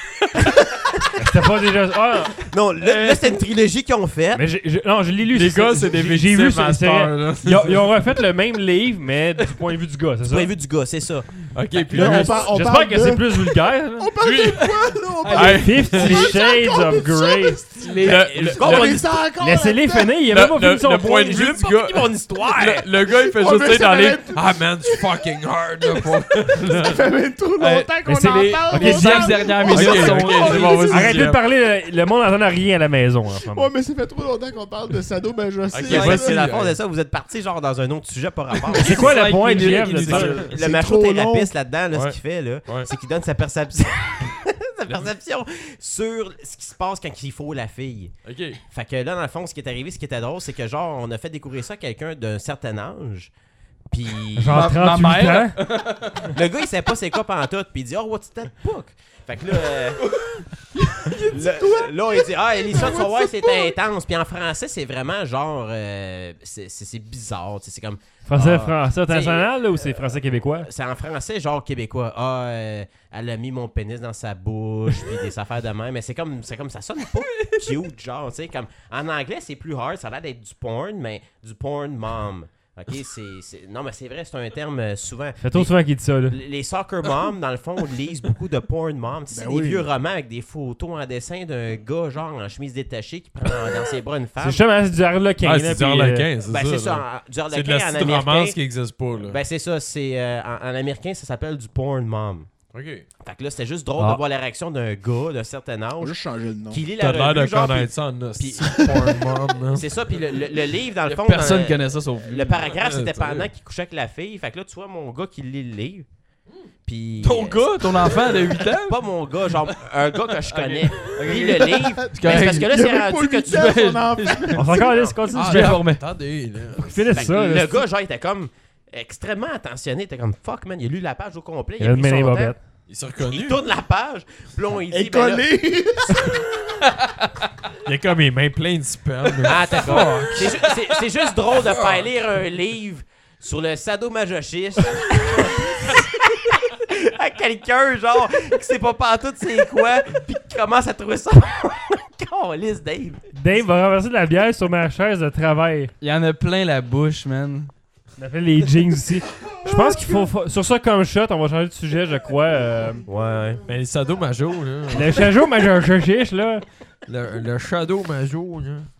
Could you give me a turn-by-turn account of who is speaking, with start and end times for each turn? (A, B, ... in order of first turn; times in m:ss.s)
0:00.4-0:01.4 A
0:01.2-0:02.4 B
0:02.3-0:04.4 A
0:02.8-0:03.3 C
0:04.3-0:10.5 B
0:05.3-0:07.9 D
0:10.3-0:11.5 A
0:11.5-0:12.5 D
0:11.9-0:20.2 E
0:12.0-0:14.1 B
0:14.2-0:14.7 D
0:14.6-0:16.3 C
0:15.3-0:16.3 D
0:15.6-0:17.6 B
0:17.8-0:18.3 C
0:18.0-0:19.0 D
0:18.1-0:19.1 A
0:19.4-0:21.3 B
0:20.3-0:27.0 D
0:21.2-0:22.9 A
0:23.1-0:25.2 E
0:26.0-0:31.0 E
0:27.6-0:31.2 C
0:28.0-0:29.4 B
0:29.6-0:31.4 D
0:30.9-0:33.7 B
0:33.5-0:36.5 E
0:35.7-0:36.8 D
0:35.8-0:39.3 A
0:38.7-0:40.5 C
0:38.8-0:40.4 B
0:40.1-0:40.4 D
0:40.1-0:48.1 A
0:40.5-0:41.5 E
0:41.9-0:42.9 D
0:48.2-0:48.6 D
0:48.7-0:53.3 A
0:53.9-0:54.7 A
0:54.4-0:55.6 B
0:54.5-0:56.4 C
0:56.3-1:00.0 A
1:00.0-1:03.7 C
1:01.2-1:25.7 A
1:08.3-1:10.7 B
1:17.3-1:17.6 C
1:25.4-1:26.4 B
1:26.3-1:34.6 A
1:29.3-1:29.9 E
1:34.4-1:36.2 B
1:35.4-1:39.4 D
1:36.4-1:38.6 A
1:39.2-1:42.5 A
1:42.7-1:43.0 D
1:43.2-1:46.2 A
1:46.0-1:46.8 E
1:46.7-1:49.2 A
1:47.0-1:49.9 D
1:49.7-1:56.0 A
1:51.0-1:52.7 C
1:52.7-1:53.5 D
1:56.8-2:03.7 A
1:57.2-2:02.8 C
2:01.2-2:05.2 E
2:03.5-2:04.7 C
2:04.5-2:05.8 B
2:05.3-2:07.1 D
2:05.3-2:06.0 C
2:06.8-2:07.8 B
2:07.1-2:12.5 A
2:11.8-2:12.6 B
2:12.9-2:13.6 D
2:13.2-2:15.4 A
2:14.9-2:16.5 E
2:17.0-2:17.4 C
2:17.8-2:20.3 D
2:19.4-2:33.2 A
2:19.8-2:21.0 C
2:21.6-2:22.1 D
2:33.3-2:35.9 B
2:36.0-2:37.7 C
2:38.2-2:43.0 B
2:43.1-2:43.6 A
2:43.6-2:45.3 D
2:44.9-2:46.6 B
2:47.0-2:48.9 D